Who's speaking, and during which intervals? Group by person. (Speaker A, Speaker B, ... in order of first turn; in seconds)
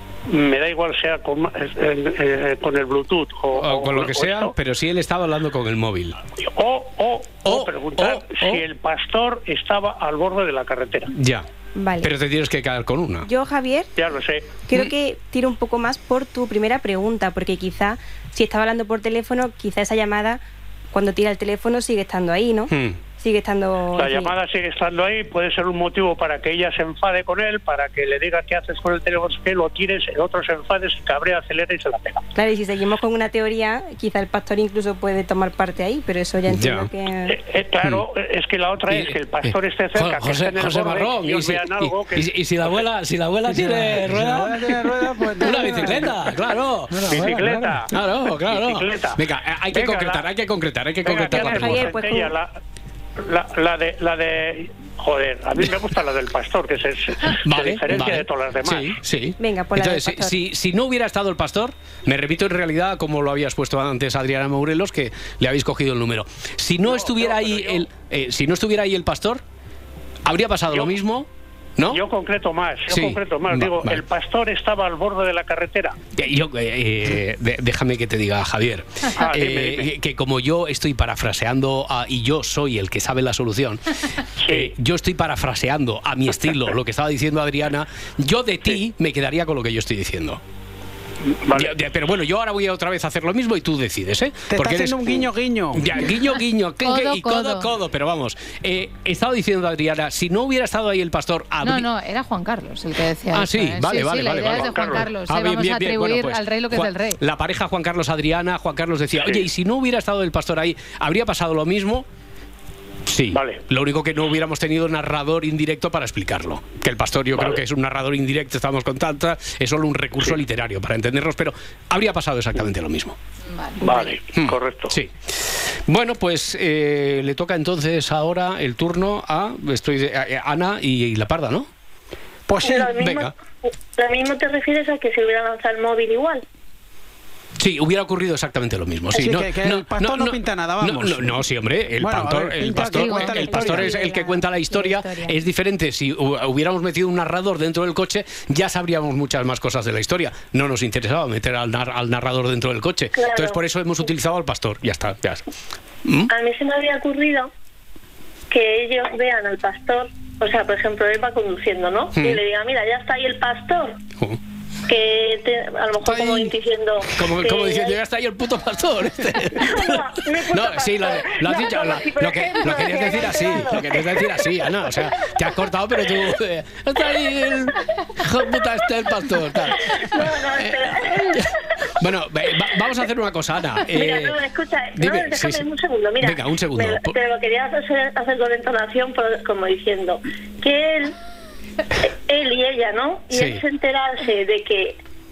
Speaker A: 0.3-4.5, 6.4-11.1, 14.0-14.5, 23.9-32.2, 37.3-42.8, 47.1-47.9, 48.5-49.2, 49.7-50.2, 51.0-52.5, 53.2-59.0, 66.9-67.8, 70.7-71.0, 71.9-76.0, 79.2-79.9, 84.4-84.7, 91.4-91.7, 104.5-105.1, 113.3-113.6, 123.8-125.0
Speaker B: 3.5-6.2, 7.4-8.6, 11.1-11.5, 12.0-13.3, 22.7-23.0, 36.5-36.9, 38.9-47.2, 47.9-52.0, 57.4-69.4, 70.2-72.0, 72.9-74.0, 76.2-90.4, 91.5-101.9, 103.3-112.0, 113.0-123.2, 124.3-131.7, 132.9-133.3, 137.6-155.4, 156.0-156.3, 162.1-162.4, 167.1-184.4, 184.9-185.6, 186.2-187.2, 193.3-193.6
Speaker C: 11.7-12.1, 13.2-13.9, 14.7-24.3, 32.3-37.3, 51.3-52.3, 59.4-60.4
Speaker D: 43.5-46.2, 46.9-47.8, 94.5-95.9, 132.5-133.0, 139.1-141.4, 142.0-144.0, 166.2-166.4
Speaker E: 96.8-97.7, 101.6-107.2, 123.5-123.8, 142.9-143.4
Speaker F: 132.6-133.3, 133.9-136.4, 153.1-153.6, 156.3-157.5, 158.5-164.0, 164.9-168.0, 169.6-174.5, 179.8-181.5, 183.9-191.2, 192.0-195.0